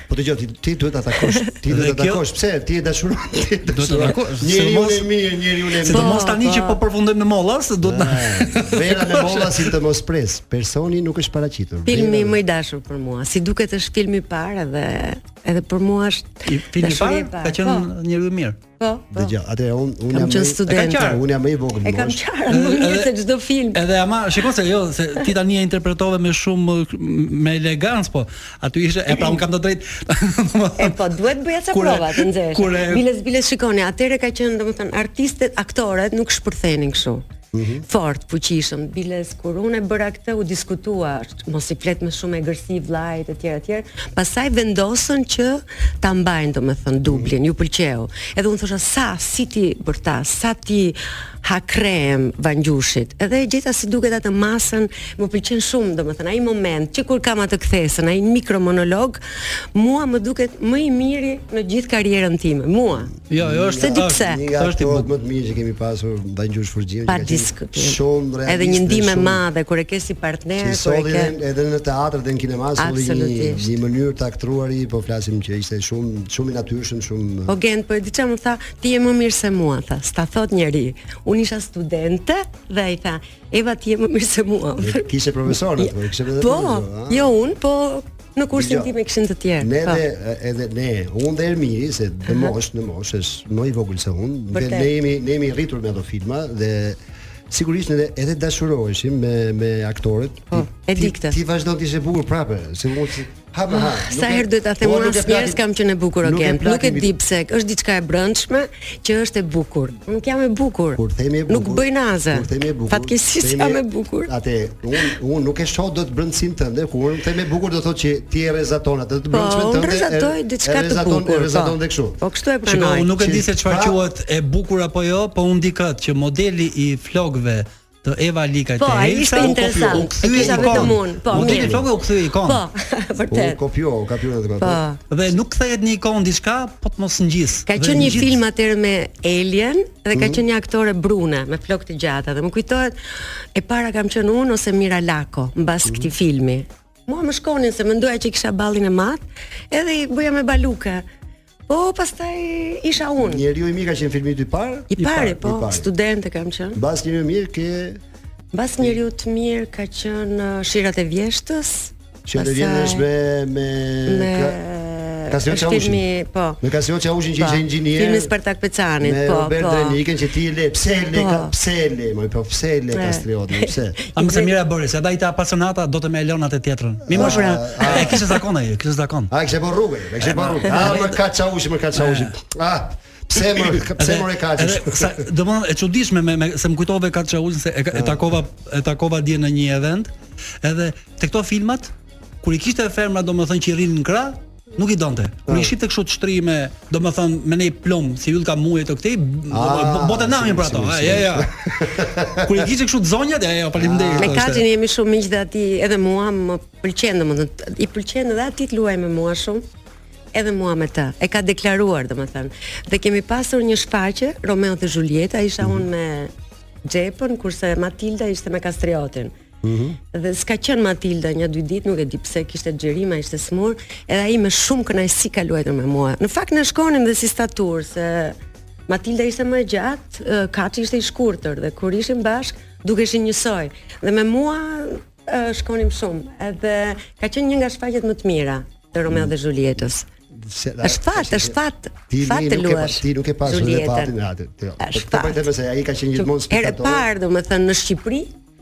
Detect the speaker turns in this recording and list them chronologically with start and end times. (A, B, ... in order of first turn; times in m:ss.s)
0:00.1-0:06.2 A
0:01.7-0:02.2 B
0:03.7-0:05.0 B
0:05.8-0:09.6 B
0:05.9-0:06.8 C
0:07.8-0:12.4 A
0:11.9-0:17.9 C
0:16.5-0:18.6 B
0:18.8-0:19.3 C
0:19.1-0:22.2 A
0:20.1-0:21.1 C
0:20.7-0:21.2 B
0:21.8-0:23.8 C
0:22.5-0:23.1 B
0:23.7-0:31.0 B
0:30.8-0:37.2 C
0:31.7-0:33.0 B
0:37.5-0:37.8 A
0:37.9-0:59.2 C
0:47.0-0:47.3 A
0:59.7-1:03.1 C
1:03.3-1:05.1 B
1:03.4-1:09.4 A
1:03.8-1:04.4 C
1:07.0-1:11.3 C
1:10.6-1:17.6 A
1:12.8-1:13.7 C
1:17.5-1:25.1 C
1:24.8-1:27.3 A
1:25.8-1:30.0 C
1:28.5-1:28.9 A
1:29.6-1:37.0 A
1:32.3-1:32.5 C
1:34.5-1:34.9 C
1:37.5-1:45.6 A
1:40.5-1:41.4 C
1:43.7-1:54.3 C
1:46.2-1:47.1 A
1:50.9-2:02.2 A
1:59.3-2:03.1 C
2:02.6-2:12.6 B
2:03.2-2:04.0 A
2:08.8-2:11.8 C
2:09.3-2:11.9 A
2:12.4-2:13.6 C
2:13.3-2:14.8 A
2:14.6-2:15.0 C
2:15.1-2:18.3 B
2:17.7-2:23.0 C
2:18.0-2:18.3 A
2:20.1-2:20.4 A
2:23.5-2:31.0 C
2:25.8-2:26.1 A
2:31.7-2:33.4 C
2:33.2-2:35.9 A
2:34.9-2:36.8 C
2:36.7-2:38.0 A
2:38.5-2:43.0 C
2:42.2-2:44.6 A
2:44.1-2:46.6 C
2:45.3-2:46.0 A
2:46.6-2:48.3 A
2:47.4-2:50.0 C
2:49.0-2:54.0 A
2:51.1-2:51.5 C
2:52.9-2:54.5 C
2:54.2-2:59.3 B
2:57.1-2:58.3 A
2:57.2-2:58.2 C
2:59.3-3:05.2 A
3:00.2-3:01.1 B
3:02.0-3:02.3 B
3:04.0-3:10.1 B
3:07.9-3:08.2 A
3:10.6-3:21.5 B
3:19.5-3:22.7 A
3:22.4-3:24.6 B
3:23.8-3:24.4 A
3:24.2-3:29.6 C
3:30.3-3:36.3 C
3:35.6-3:35.9 A
3:36.9-3:39.4 C
3:39.6-3:40.0 A
3:40.1-3:48.4 C
3:48.9-4:00.1 C
3:59.1-3:59.8 A
4:00.4-4:01.6 A
4:00.8-4:04.1 C
4:02.1-4:07.1 A
4:04.8-4:05.4 C
4:06.2-4:08.3 C